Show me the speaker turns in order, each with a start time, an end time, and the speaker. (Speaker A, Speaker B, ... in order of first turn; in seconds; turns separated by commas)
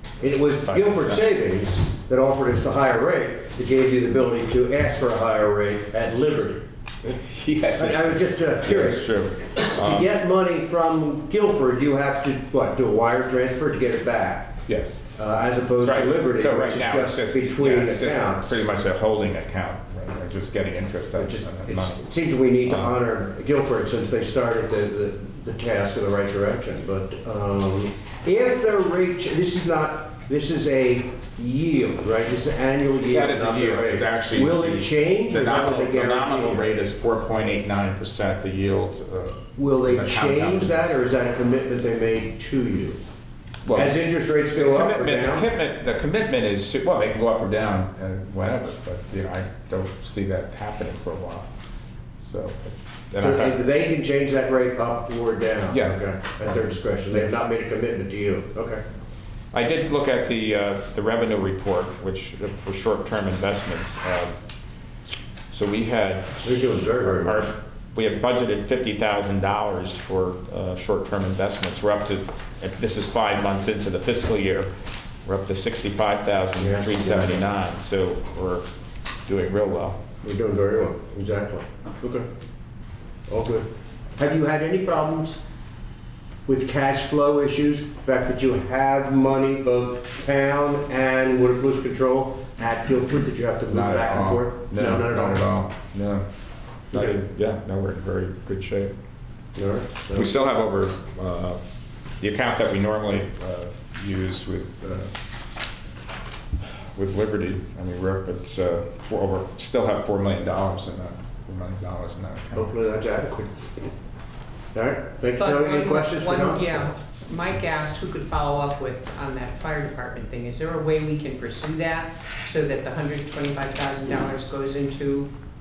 Speaker A: 0.2-7.2, Speaker B: 0.5-1.2, Speaker B: 7.1-10.1, Speaker A: 7.8-14.6, Speaker B: 14.7-15.1, Speaker A: 15.2-18.6, Speaker B: 15.8-22.0, Speaker A: 21.1-36.7, Speaker B: 22.6-22.9, Speaker B: 33.1-40.9, Speaker A: 39.5-43.0, Speaker B: 43.6-43.9, Speaker A: 43.7-45.5, Speaker B: 44.5-51.5, Speaker B: 52.2-53.6, Speaker A: 53.2-58.8, Speaker B: 55.7-57.4, Speaker B: 59.5-64.3, Speaker B: 65.5-74.7, Speaker A: 66.4-67.5, Speaker B: 75.2-78.6, Speaker A: 76.6-77.5, Speaker B: 79.2-80.0, Speaker A: 80.2-82.3, Speaker A: 83.3-85.4, Speaker A: 86.5-95.5, Speaker B: 93.7-96.2, Speaker B: 96.9-98.9, Speaker A: 96.9-97.2, Speaker A: 99.6-100.5, Speaker B: 100.1-101.6, Speaker B: 102.2-105.1, Speaker B: 106.6-112.7, Speaker A: 112.5-113.9, Speaker A: 114.7-116.9, Speaker C: 115.4-125.3